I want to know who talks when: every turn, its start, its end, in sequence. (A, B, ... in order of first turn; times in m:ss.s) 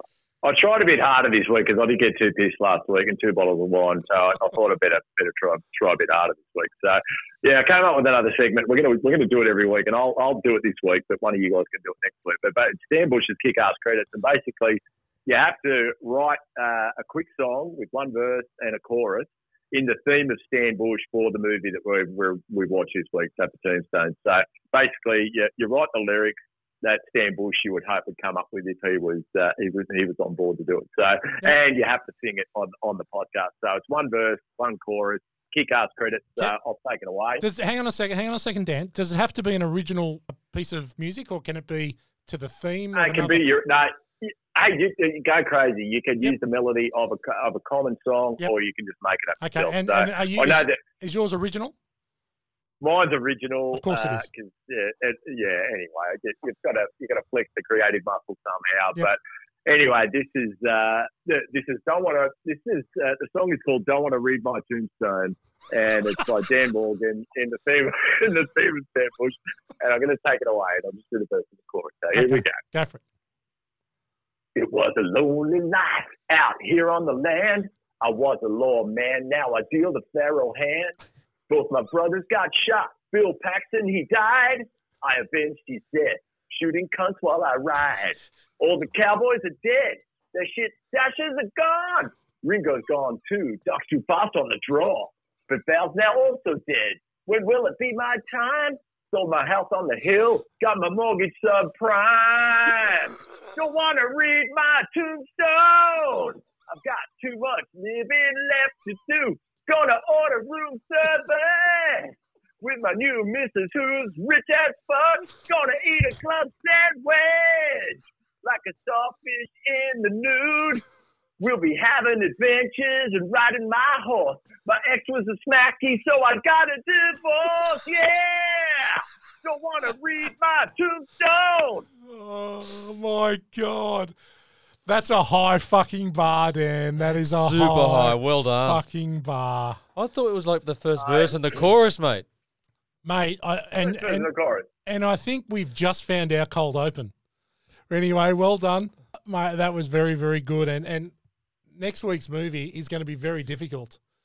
0:00.4-0:37.4 A
0:37.4-0:43.4 B
0:43.0-0:50.8 A
0:49.4-0:51.7 B
0:52.8-1:12.6 A
0:53.7-0:54.2 B
1:12.1-1:13.0 B
1:14.6-1:21.0 A
1:21.5-2:00.8 A
2:01.4-2:11.9 A
2:12.1-2:14.1 B
2:14.9-2:19.8 B
2:17.0-2:18.8 C
2:20.0-2:22.3 C
2:21.0-2:21.6 A
2:23.0-2:24.3 B
2:23.8-2:24.7 A
2:24.9-2:27.1 B
2:27.9-2:31.1 B
2:31.7-2:34.0 B